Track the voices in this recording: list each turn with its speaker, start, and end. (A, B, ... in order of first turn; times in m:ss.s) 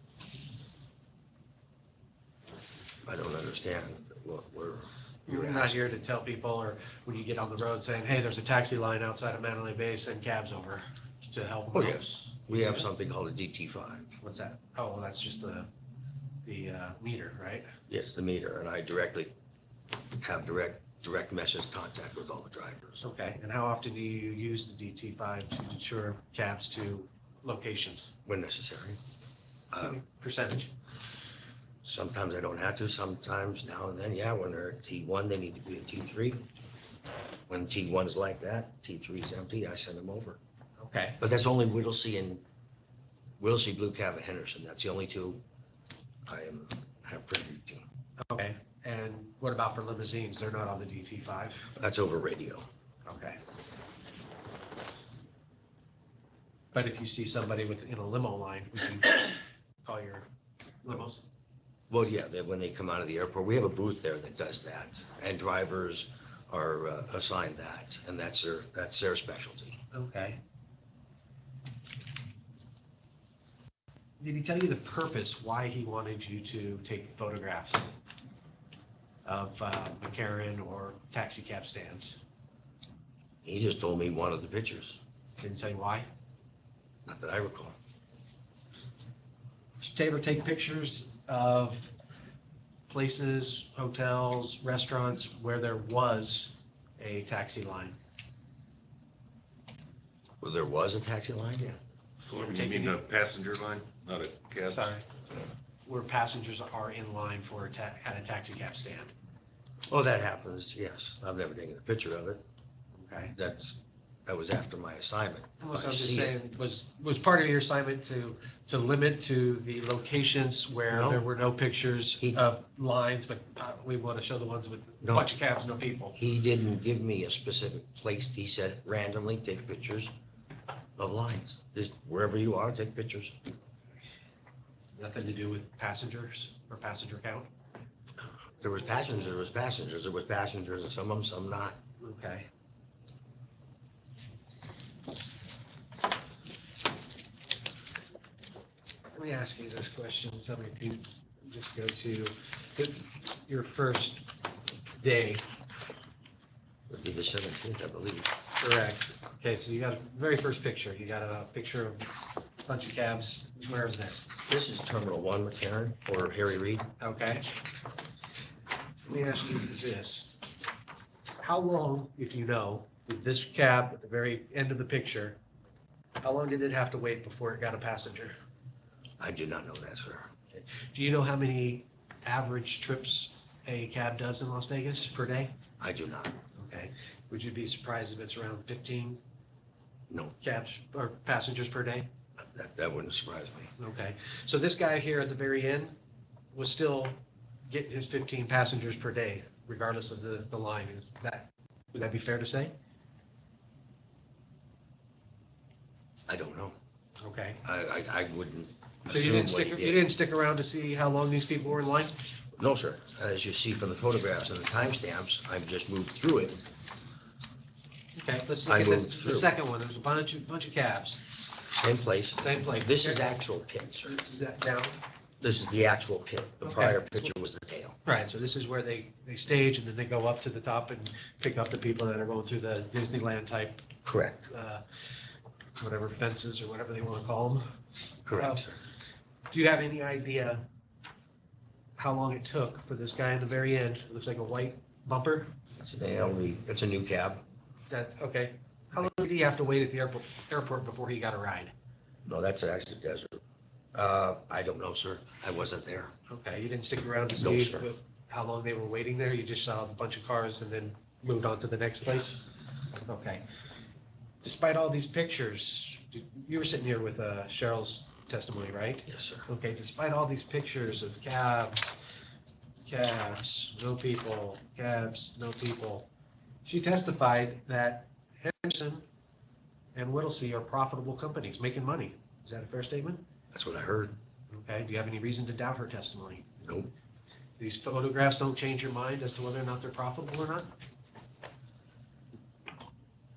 0:03.0-0:05.8 A
0:05.3-0:12.8 B
0:11.7-0:14.2 A
0:14.2-0:15.7 B
0:16.4-0:17.7 B
0:17.9-0:19.3 A
0:20.2-0:23.0 A
0:23.0-0:28.1 B
0:28.2-0:29.0 A
0:29.7-0:30.0 A
0:29.8-0:30.7 B
0:31.8-0:36.4 A
0:37.5-0:40.4 A
0:40.8-0:41.2 B
0:41.2-0:42.4 A
0:43.4-0:45.4 A
0:46.3-0:47.9 A
0:48.2-0:51.7 B
0:51.8-0:52.7 A
0:53.1-0:53.4 B
0:56.7-1:00.3 B
1:00.8-1:01.3 B
1:01.9-1:09.8 A
1:09.9-1:10.4 B
1:14.2-1:17.9 B
1:19.3-1:22.2 B
1:23.4-1:25.0 A
1:25.4-1:26.1 B
1:27.1-1:27.8 A
1:29.8-1:31.9 B
1:32.9-1:38.0 B
1:40.4-1:41.7 A
1:42.3-1:44.9 C
1:42.3-1:43.0 B
1:44.7-1:45.1 B
1:45.9-1:49.1 B
1:49.9-1:52.4 A
1:53.0-1:53.3 B
1:53.3-1:56.3 A
1:55.6-2:06.2 B
2:00.9-2:01.2 A
2:05.0-2:05.3 A
2:06.2-2:10.1 A
2:11.0-2:13.4 A
2:15.0-2:17.5 B
2:18.6-2:21.8 A
2:22.0-2:22.5 B
2:29.1-2:34.4 B
2:35.0-2:35.4 B
2:36.9-2:38.3 A
2:38.6-2:42.1 B
2:42.6-2:44.4 B
2:44.5-2:46.9 A
2:47.0-2:47.5 B
2:49.1-2:50.4 B
2:51.4-2:55.4 B
2:56.2-2:58.4 B
2:59.2-3:00.3 A
3:00.9-3:05.6 B
3:05.8-3:06.4 A
3:06.6-3:09.2 B
3:10.1-3:10.4 A
3:10.4-3:12.1 B
3:12.4-3:13.7 A
3:13.8-3:16.0 B
3:16.5-3:22.8 B
3:26.3-3:26.8 A
3:27.2-3:27.6 B
3:27.6-3:30.0 A
3:29.1-3:32.3 B
3:32.6-3:36.6 A
3:38.2-3:41.4 B
3:38.6-3:39.5 A
3:41.8-3:44.2 A
3:42.4-3:43.3 B
3:44.0-3:45.0 B
3:45.4-3:48.0 A
3:46.6-3:47.1 B
3:48.0-3:53.9 B
3:54.0-3:54.5 A
3:54.4-3:54.8 B
3:55.8-3:57.6 B
3:58.2-3:58.8 A
3:58.4-3:58.6 B
3:59.5-4:00.6 B
4:02.0-4:05.5 B
4:05.8-4:07.4 A
4:07.9-4:11.7 B
4:12.2-4:13.4 A
4:13.9-4:16.1 A
4:16.3-4:22.4 B
4:17.4-4:17.9 A
4:23.0-4:23.4 B
4:24.4-4:31.9 B
4:29.1-4:29.5 A
4:32.8-4:36.1 B
4:36.6-4:39.0 B
4:40.0-4:43.2 B
4:43.5-4:44.2 A
4:44.5-4:46.5 B
4:46.6-4:46.9 A
4:47.6-4:50.7 B